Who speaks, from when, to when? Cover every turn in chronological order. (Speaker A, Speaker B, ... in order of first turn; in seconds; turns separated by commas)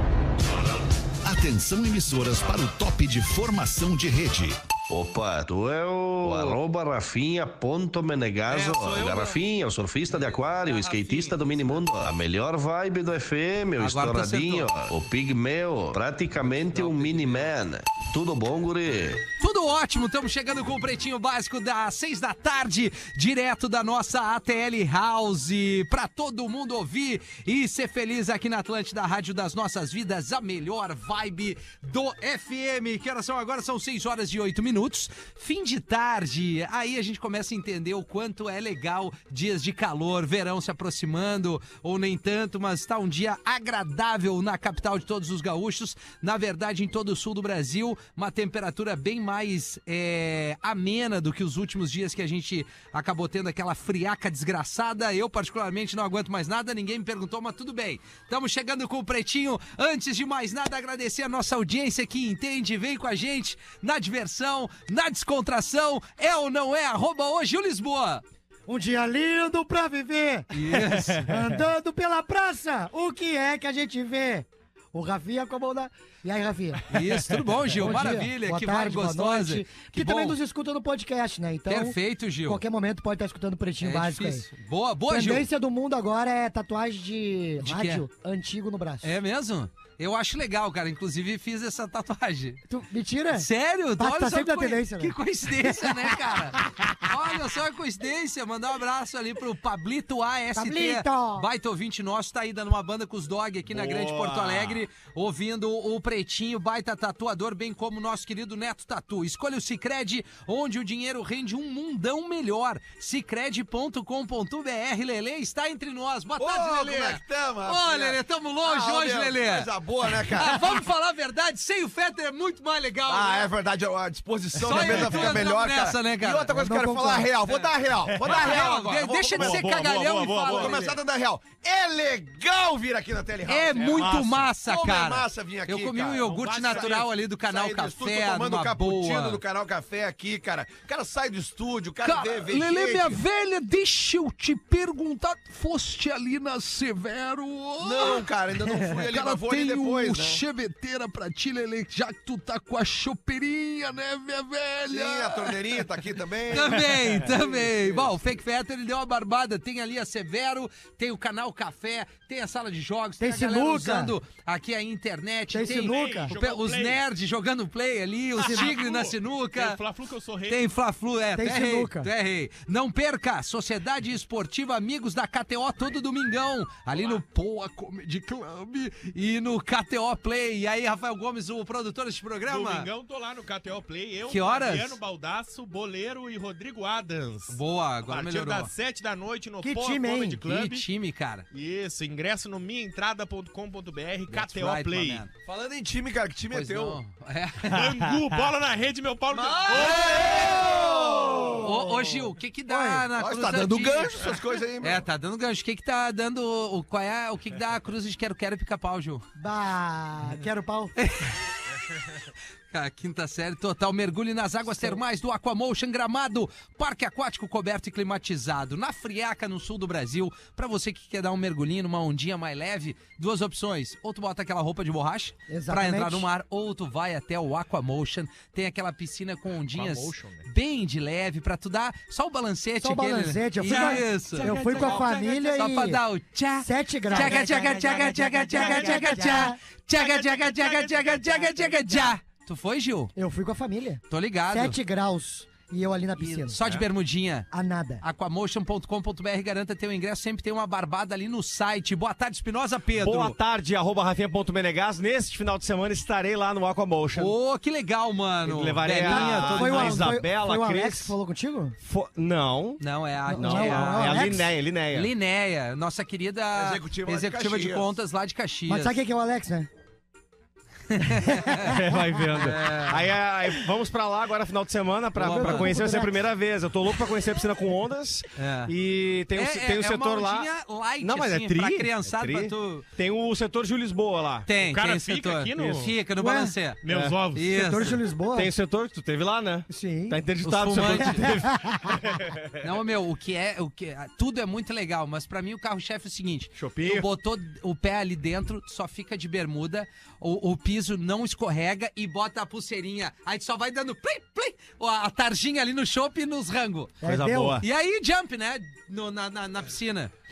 Speaker A: 1.2-4.6, Speaker B: 4.9-19.2, Speaker C: 8.5-9.4, Speaker C: 10.1-11.8, Speaker C: 13.8-14.7, Speaker C: 16.7-17.5, Speaker C: 19.4-68.2, Speaker D: 68.7-84.5, Speaker C: 70.5-71.3, Speaker C: 76.9-80.4, Speaker C: 81.7-82.6, Speaker C: 83.8-85.5, Speaker D: 85.1-89.1, Speaker C: 87.6-88.0, Speaker C: 89.0-92.6, Speaker D: 92.7-97.0, Speaker C: 93.3-123.5, Speaker D: 100.5-101.5, Speaker E: 103.7-104.8, Speaker F: 116.4-120.8, Speaker F: 123.1-129.7, Speaker C: 124.6-126.5, Speaker D: 126.5-127.3, Speaker E: 128.1-128.6, Speaker C: 128.2-131.0, Speaker E: 129.3-130.8, Speaker F: 130.5-143.2, Speaker C: 133.5-139.4, Speaker E: 133.8-134.5, Speaker E: 136.3-137.1, Speaker C: 142.0-148.3, Speaker F: 147.8-150.4, Speaker C: 148.9-155.8, Speaker F: 154.9-157.9, Speaker C: 156.5-169.8, Speaker D: 163.2-164.1, Speaker D: 165.5-166.3, Speaker E: 165.7-167.0, Speaker D: 168.4-168.7, Speaker E: 168.4-170.7, Speaker C: 170.4-182.9, Speaker D: 171.3-172.1, Speaker E: 182.4-190.8, Speaker C: 184.3-185.0, Speaker C: 187.5-188.7, Speaker D: 189.6-190.4, Speaker C: 190.4-191.5, Speaker E: 191.5-195.2, Speaker C: 194.3-195.3, Speaker F: 195.4-197.0, Speaker C: 196.5-197.9, Speaker E: 197.7-200.5, Speaker F: 199.3-202.1, Speaker C: 199.7-200.7, Speaker C: 201.5-204.2, Speaker D: 202.7-203.1, Speaker F: 202.9-205.0, Speaker C: 204.8-209.2, Speaker D: 209.4-210.9, Speaker C: 211.0-211.3, Speaker C: 212.7-243.1, Speaker D: 225.5-226.3, Speaker E: 229.7-230.5, Speaker D: 232.8-236.0, Speaker E: 233.6-235.6, Speaker D: 236.6-239.6, Speaker E: 237.1-241.9, Speaker D: 241.9-242.2, Speaker D: 243.2-246.6, Speaker C: 244.1-244.8, Speaker C: 246.2-247.5, Speaker E: 246.6-246.8, Speaker D: 247.5-248.0, Speaker C: 248.0-253.4, Speaker G: 252.9-257.3, Speaker C: 257.1-260.1, Speaker G: 258.4-261.1, Speaker D: 259.1-261.8, Speaker G: 261.8-262.8, Speaker C: 262.8-264.3, Speaker D: 263.3-264.6, Speaker G: 263.3-265.1, Speaker C: 264.9-269.0, Speaker F: 266.5-268.0, Speaker D: 268.7-269.7, Speaker C: 270.9-271.7, Speaker D: 271.1-271.8, Speaker G: 271.6-280.5, Speaker C: 272.4-273.0, Speaker C: 275.1-275.8, Speaker D: 275.2-276.2, Speaker C: 278.4-278.7, Speaker C: 279.3-282.9, Speaker G: 281.0-284.5, Speaker C: 284.4-286.8, Speaker E: 284.6-285.9, Speaker D: 286.2-286.5, Speaker E: 286.8-287.4, Speaker G: 286.9-287.2, Speaker C: 287.3-288.0, Speaker D: 287.4-288.5, Speaker G: 288.3-291.6, Speaker D: 289.7-290.2, Speaker C: 290.4-291.3, Speaker D: 290.9-292.2, Speaker G: 292.2-292.5, Speaker C: 292.6-306.9, Speaker E: 296.6-297.1, Speaker D: 307.0-307.6, Speaker G: 307.0-307.6, Speaker C: 307.6-310.1